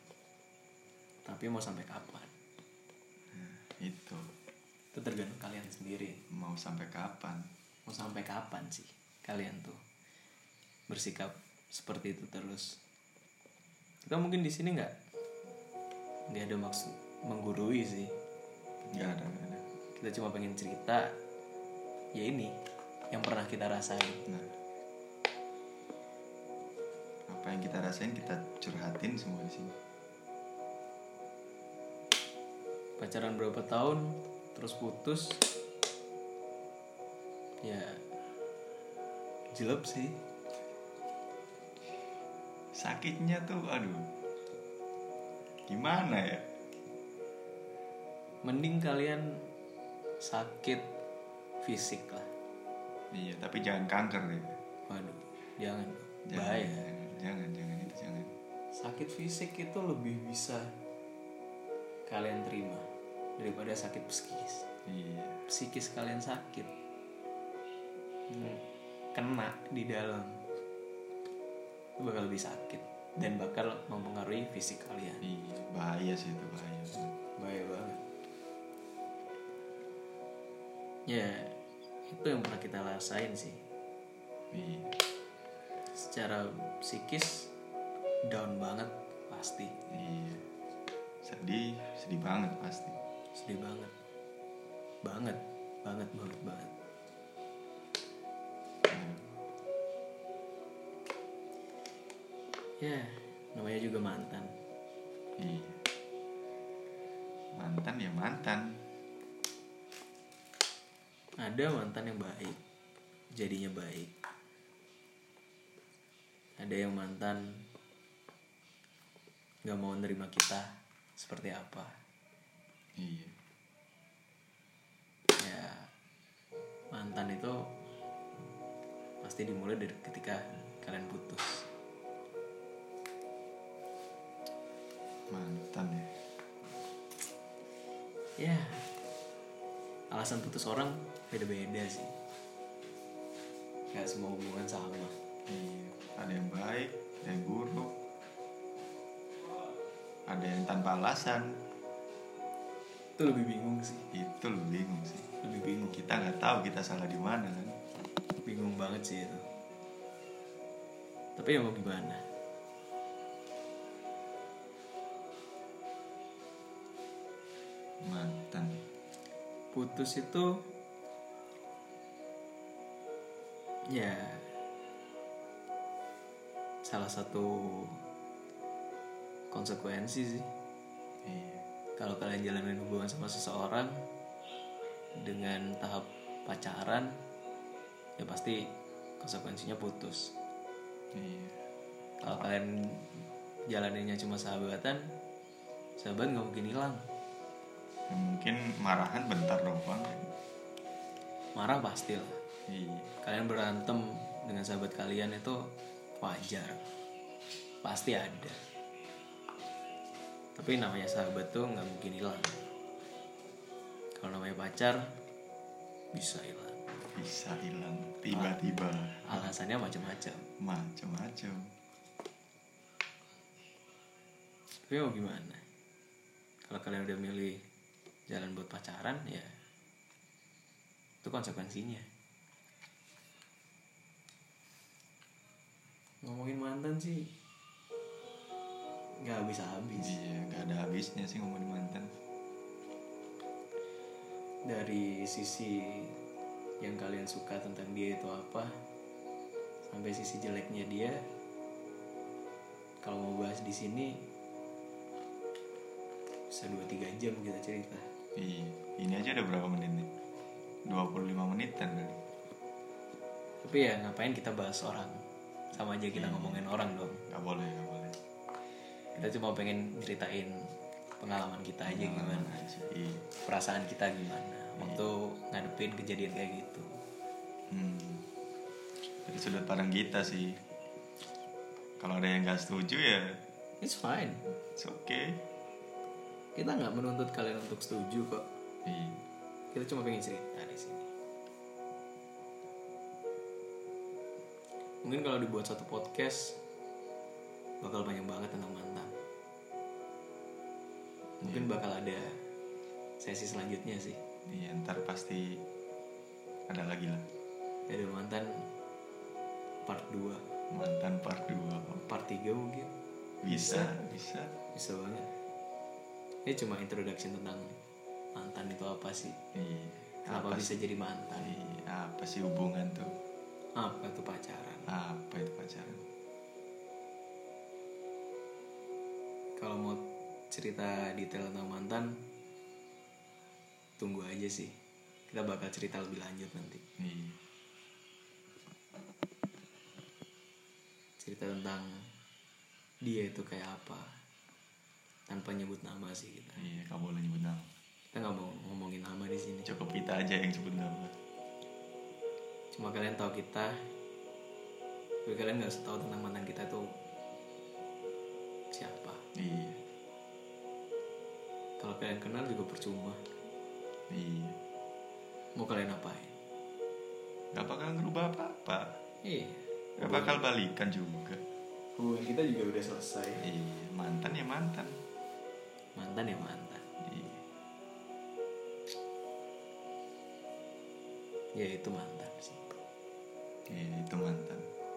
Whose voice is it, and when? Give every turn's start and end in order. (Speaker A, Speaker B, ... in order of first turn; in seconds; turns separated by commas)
Speaker A: 1.2-2.3, Speaker B: 3.3-4.2, Speaker A: 4.9-6.2, Speaker B: 6.3-7.5, Speaker A: 7.9-9.8, Speaker A: 10.9-12.8, Speaker A: 14.0-14.9, Speaker A: 16.3-18.1, Speaker B: 18.9-19.6, Speaker A: 20.0-21.1, Speaker A: 22.1-22.5, Speaker A: 23.1-24.2, Speaker B: 27.3-29.7, Speaker A: 33.0-35.4, Speaker A: 37.6-38.0, Speaker A: 39.5-40.2, Speaker B: 42.8-44.1, Speaker B: 45.7-46.4, Speaker A: 48.4-49.5, Speaker A: 50.2-50.9, Speaker A: 51.6-52.3, Speaker B: 53.1-54.6, Speaker A: 54.9-56.9, Speaker B: 56.3-58.3, Speaker A: 58.7-60.7, Speaker A: 62.1-62.9, Speaker A: 63.4-64.7, Speaker B: 64.8-65.4, Speaker A: 65.5-66.7, Speaker A: 68.3-68.6, Speaker A: 69.1-70.4, Speaker A: 72.0-75.3, Speaker B: 75.2-77.1, Speaker A: 77.4-78.0, Speaker A: 81.1-81.5, Speaker A: 82.1-83.6, Speaker B: 84.5-84.9, Speaker A: 85.9-87.5, Speaker A: 88.3-89.7, Speaker B: 89.9-90.4, Speaker B: 91.2-93.0, Speaker A: 93.3-93.9, Speaker A: 95.0-96.7, Speaker B: 98.9-99.4, Speaker A: 102.8-104.5, Speaker B: 105.4-105.8, Speaker B: 107.5-108.7, Speaker A: 111.4-112.6, Speaker A: 113.3-114.1, Speaker A: 116.6-117.5, Speaker A: 119.6-121.9, Speaker B: 123.0-123.3, Speaker A: 125.4-125.9, Speaker A: 126.9-127.6, Speaker A: 129.2-131.6, Speaker B: 135.3-136.1, Speaker A: 138.4-138.9, Speaker A: 140.1-142.1, Speaker A: 143.9-145.1, Speaker B: 145.4-147.9, Speaker B: 150.3-151.6, Speaker A: 153.2-154.1, Speaker B: 154.1-155.3, Speaker A: 155.4-156.0, Speaker B: 155.9-157.7, Speaker A: 158.4-159.4, Speaker A: 161.4-162.2, Speaker B: 168.0-168.8, Speaker A: 169.7-170.6, Speaker A: 173.9-174.5, Speaker A: 176.8-178.0, Speaker A: 179.5-180.5, Speaker B: 181.2-181.6, Speaker A: 182.0-183.9, Speaker A: 185.2-187.1, Speaker A: 188.2-188.6, Speaker A: 189.2-190.3, Speaker B: 191.1-191.6, Speaker A: 192.2-195.1, Speaker A: 196.0-197.0, Speaker B: 198.1-200.3, Speaker A: 201.6-202.4, Speaker B: 202.7-203.1, Speaker A: 203.2-205.6, Speaker A: 206.2-206.8, Speaker A: 207.8-208.6, Speaker A: 210.6-212.6, Speaker A: 214.2-215.0, Speaker A: 216.1-216.8, Speaker B: 217.1-219.5, Speaker A: 219.2-220.4, Speaker B: 220.6-221.7, Speaker A: 224.9-225.6, Speaker A: 226.6-227.6, Speaker A: 228.3-229.5, Speaker A: 231.2-232.1, Speaker A: 236.2-237.3, Speaker A: 239.2-240.2, Speaker B: 240.0-242.1, Speaker A: 244.7-246.2, Speaker A: 246.8-248.7, Speaker A: 249.9-251.2, Speaker A: 253.0-254.2, Speaker A: 256.5-258.1, Speaker B: 258.3-260.1, Speaker B: 260.9-262.2, Speaker A: 263.6-265.2, Speaker A: 265.7-267.2, Speaker B: 266.1-266.7, Speaker B: 267.3-268.2, Speaker A: 269.1-272.5, Speaker B: 271.9-273.2, Speaker A: 273.4-277.0, Speaker B: 274.8-275.1, Speaker B: 277.7-278.3, Speaker B: 279.2-280.6, Speaker B: 282.0-283.4, Speaker A: 283.8-284.4, Speaker B: 284.7-285.4, Speaker A: 286.5-288.4, Speaker B: 288.9-289.2, Speaker A: 289.7-291.1, Speaker A: 295.0-296.6, Speaker A: 297.8-299.1, Speaker B: 301.4-301.7, Speaker A: 301.4-302.4, Speaker A: 303.2-304.2, Speaker B: 304.5-305.6, Speaker B: 306.7-307.3, Speaker A: 307.9-308.7, Speaker A: 309.9-310.4, Speaker B: 310.7-312.0, Speaker A: 312.1-312.9, Speaker B: 313.4-314.5, Speaker A: 313.5-314.0, Speaker A: 314.7-315.3, Speaker A: 316.4-317.8, Speaker A: 318.3-319.4, Speaker B: 319.5-320.8, Speaker A: 320.3-321.6, Speaker B: 321.4-323.1, Speaker A: 323.8-324.9, Speaker B: 324.9-326.0, Speaker A: 329.6-332.1, Speaker A: 334.0-334.7, Speaker A: 335.3-336.8, Speaker B: 337.0-337.4, Speaker A: 341.2-342.1, Speaker A: 343.0-344.1, Speaker A: 345.3-346.6, Speaker B: 346.6-347.7, Speaker A: 348.1-349.7, Speaker B: 349.6-351.1, Speaker A: 352.7-353.8, Speaker A: 355.2-356.9, Speaker A: 358.7-359.2, Speaker B: 359.3-359.8, Speaker A: 361.8-363.2, Speaker B: 364.1-364.6, Speaker A: 365.6-366.4, Speaker B: 367.5-369.0, Speaker A: 369.2-370.4, Speaker B: 370.0-371.4, Speaker A: 371.9-373.5, Speaker B: 373.4-374.9, Speaker A: 375.9-376.8, Speaker B: 377.0-377.4, Speaker A: 381.5-382.8, Speaker B: 383.7-384.7